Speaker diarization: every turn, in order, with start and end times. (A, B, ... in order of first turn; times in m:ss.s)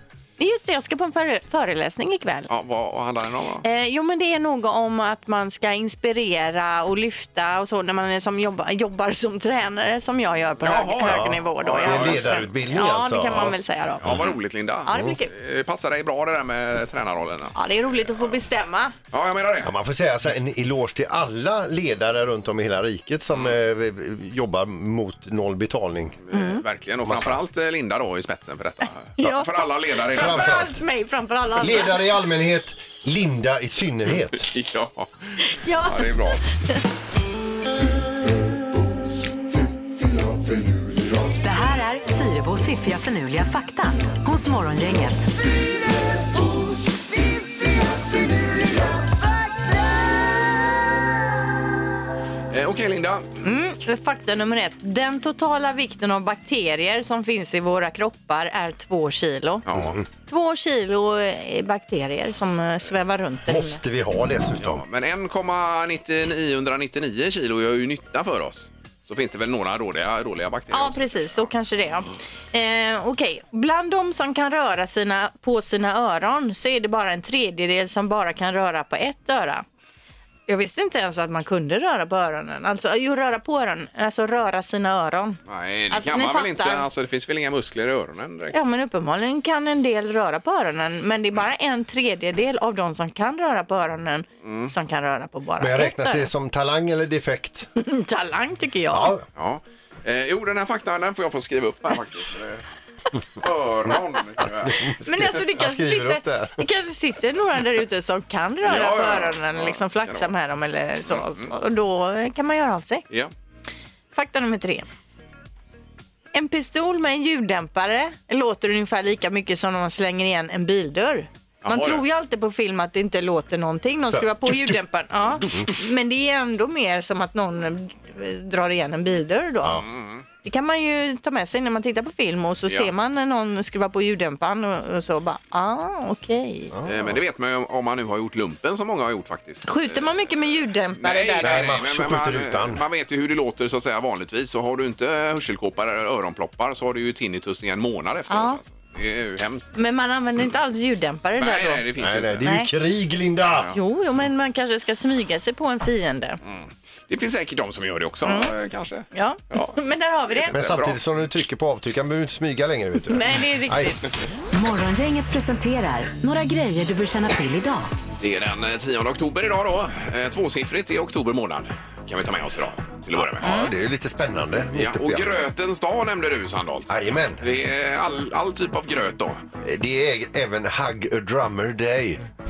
0:00.4-0:02.5 A
0:02.5-0:03.6 B
0:03.6-0:14.1 A
0:10.6-0:12.5 B
0:11.0-0:13.6 C
0:14.0-0:17.6 B
0:14.9-0:15.3 A
0:17.6-0:18.9 A
0:19.1-0:19.7 B
0:19.6-0:26.2 C
0:26.3-0:30.7 B
0:26.3-0:26.6 A
0:27.0-0:27.4 C
0:29.2-0:32.0 A
0:30.1-0:30.8 C
0:31.6-0:34.5 C
0:34.4-0:36.4 B
0:35.4-0:36.8 A
0:41.4-0:45.3 D
0:52.5-0:53.3 B
0:53.4-0:59.6 A
0:59.7-1:00.0 B
0:59.8-1:00.0 C
1:00.3-1:03.8 A
1:03.5-1:04.8 C
1:04.6-1:11.4 B
1:10.7-1:19.6 A
1:20.5-1:25.4 A
1:25.5-1:28.6 B
1:25.9-1:26.8 A
1:28.5-1:36.3 A
1:34.4-1:34.7 B
1:35.6-1:37.7 C
1:37.8-1:39.1 A
1:38.9-1:39.3 C
1:39.4-1:42.6 B
1:43.4-1:44.9 B
1:44.6-1:46.6 C
1:44.8-1:53.0 A
1:48.6-1:50.3 B
1:51.1-1:51.5 B
1:54.1-1:54.9 A
1:56.3-2:09.8 A
2:01.6-2:02.0 B
2:04.1-2:04.8 C
2:09.8-2:10.2 B
2:10.4-2:16.7 A
2:16.7-2:17.2 C
2:16.8-2:20.1 B
2:19.6-2:21.6 A
2:21.0-2:29.7 B
2:21.4-2:22.8 C
2:28.3-2:28.6 A
2:29.8-2:31.8 A
2:31.4-2:32.5 B
2:32.0-2:33.7 C
2:32.4-2:32.7 A
2:33.7-2:36.4 A
2:36.4-2:39.8 B
2:38.3-2:38.5 A
2:39.1-2:40.6 A
2:40.4-2:41.0 B
2:40.5-2:44.0 C
2:43.1-2:44.0 A
2:44.5-2:47.9 D
2:48.2-2:53.5 B
2:53.2-2:55.4 C
2:53.4-2:53.7 A
2:54.7-2:59.4 B
2:56.9-2:57.4 C
2:59.6-3:02.2 C